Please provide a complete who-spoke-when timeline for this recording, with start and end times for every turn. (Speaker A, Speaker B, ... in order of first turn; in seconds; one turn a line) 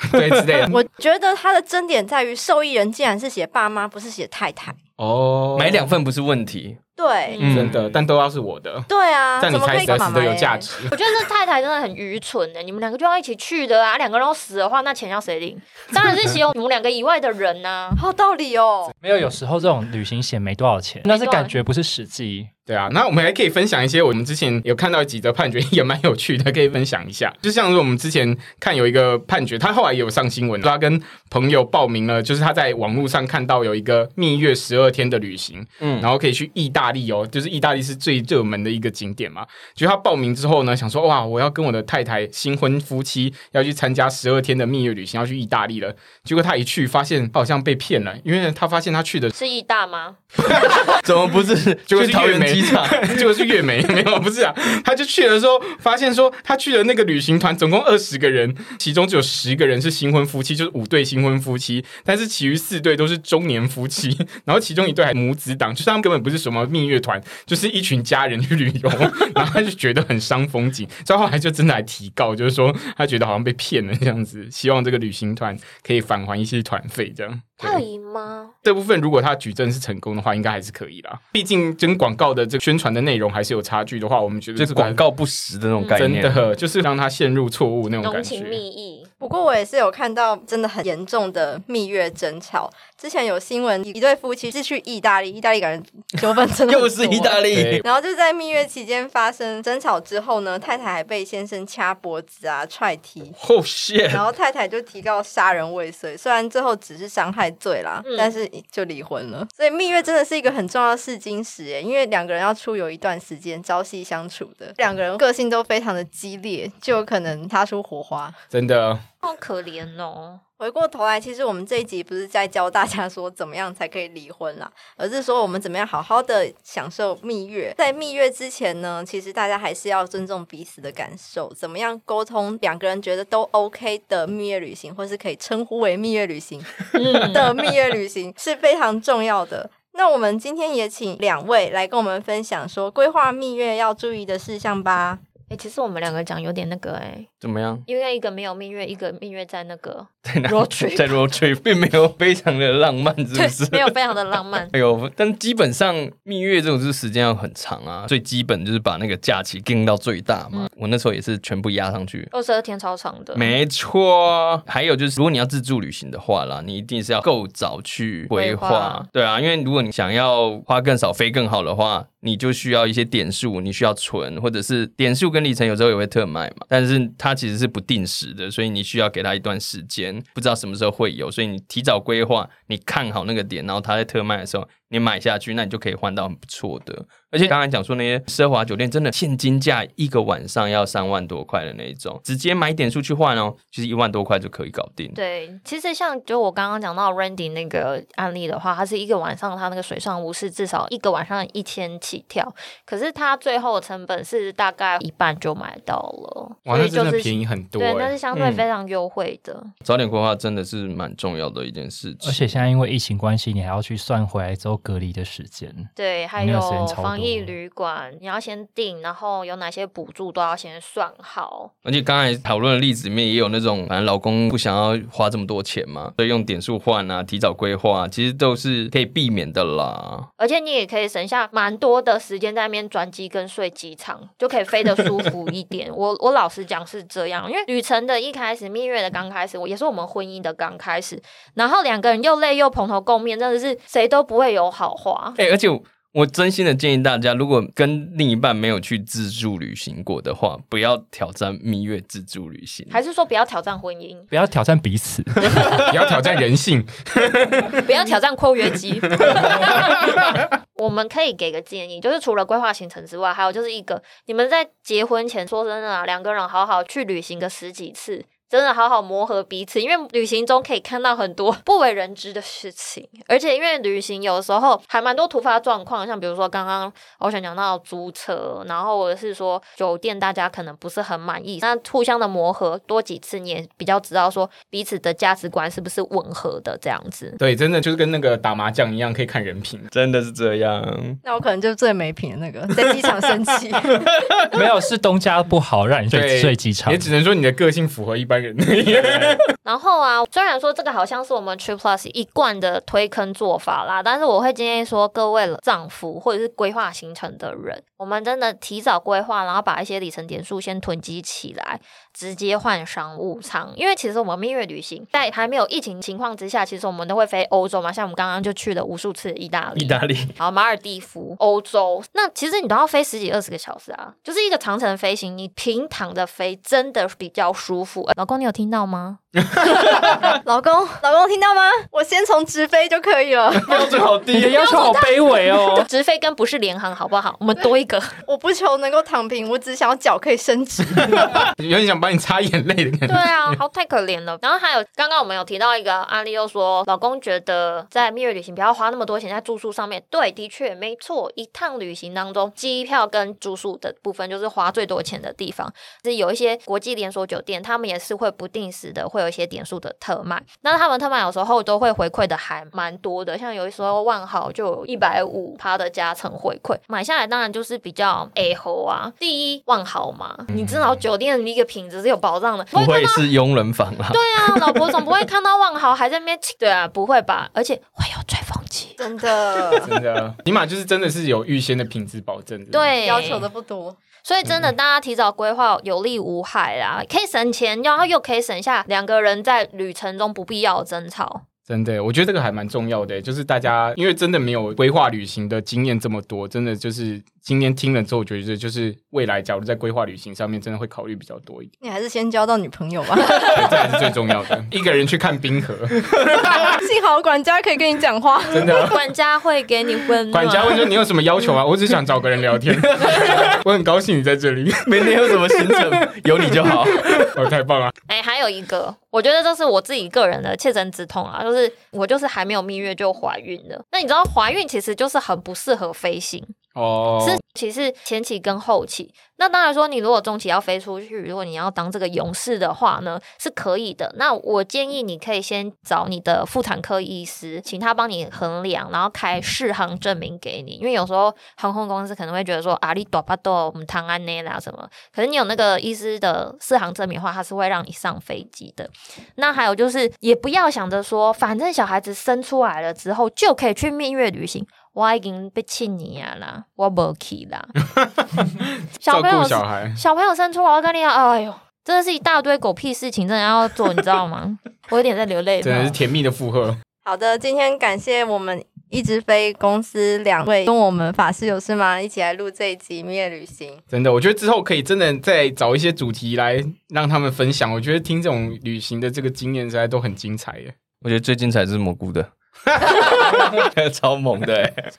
Speaker A: 0.1-0.8
Speaker B: 0.2-0.6
Speaker C: 0.6-4.8
Speaker A: 5.0-5.9
Speaker B: 5.5-6.8
Speaker C: 7.0-7.5
Speaker D: 7.3-7.7
Speaker B: 7.4-8.0
Speaker A: 7.4-8.9
Speaker C: 8.9-10.7
Speaker A: 9.4-10.9
Speaker D: 10.9-18.0
Speaker C: 18.0-18.9
Speaker E: 19.0-22.5
Speaker D: 21.1-21.6
Speaker A: 22.7-49.3
Speaker B: 35.8-36.1
Speaker D: 49.3-50.2
Speaker A: 50.5-51.0
Speaker B: 50.6-53.3
Speaker A: 51.9-77.8
Speaker D: 77.6-78.5
Speaker A: 78.6-85.0
Speaker B: 84.6-86.5
Speaker D: 85.8-86.1
Speaker A: 86.0-88.6
Speaker D: 88.0-89.1
Speaker C: 89.2-103.4
Speaker B: 96.7-97.8
Speaker A: 97.5-97.8
Speaker B: 103.4-104.2
Speaker C: 104.1-118.4
Speaker D: 108.0-108.3
Speaker A: 118.5-119.0
Speaker D: 119.2-120.4
Speaker C: 120.6-145.2
Speaker D: 136.9-137.5
Speaker D: 145.5-147.3
Speaker B: 147.4-147.8
Speaker D: 147.9-151.2
Speaker B: 150.2-154.0
Speaker D: 153.3-154.7
Speaker B: 154.7-162.3
Speaker D: 162.3-163.5
Speaker B: 163.3-195.2
Speaker D: 168.3-169.1
Speaker D: 195.2-209.7
Speaker A: 206.7-208.2
Speaker B: 208.3-208.6
Speaker B: 209.8-212.6
Speaker E: 212.2-217.6
Speaker D: 216.0-221.7
Speaker B: 221.8-230.3
Speaker D: 230.4-245.4
Speaker B: 245.4-253.0
Speaker D: 252.9-254.3
Speaker E: 254.3-255.9
Speaker A: 255.6-257.8
Speaker D: 257.7-260.1
Speaker A: 259.2-260.3
Speaker D: 260.8-287.4
Speaker A: 287.4-289.9
Speaker B: 289.9-291.2
Speaker C: 291.2-294.2
Speaker B: 294.2-294.5
Speaker E: 294.5-297.1
Speaker A: 296.1-299.4
Speaker D: 299.6-329.2
Speaker B: 319.8-320.3
Speaker B: 329.6-330.4
Speaker C: 330.1-333.9
Speaker B: 333.7-334.6
Speaker E: 334.3-335.9
Speaker D: 334.4-338.2
Speaker C: 338.2-341.2
Speaker A: 341.2-343.6
Speaker D: 343.1-373.2
Speaker B: 372.7-375.0
Speaker D: 374.1-379.0
Speaker C: 379.0-379.9
Speaker A: 379.8-382.9
Speaker D: 382.7-383.5
Speaker C: 383.0-384.0
Speaker D: 384.2-391.4
Speaker A: 391.7-401.7
Speaker C: 401.8-403.6
Speaker A: 403.4-406.8
Speaker C: 406.6-409.0
Speaker A: 408.5-409.0
Speaker D: 408.8-410.9
Speaker A: 410.3-416.0
Speaker B: 412.7-413.6
Speaker B: 414.9-417.4
Speaker A: 416.7-417.9
Speaker D: 418.1-426.6
Speaker A: 426.8-427.4
Speaker D: 427.2-457.7
Speaker A: 458.0-460.0
Speaker D: 459.0-466.0
Speaker A: 465.6-466.8
Speaker C: 467.0-473.8
Speaker A: 473.9-480.7
Speaker B: 481.0-484.9
Speaker A: 482.8-483.6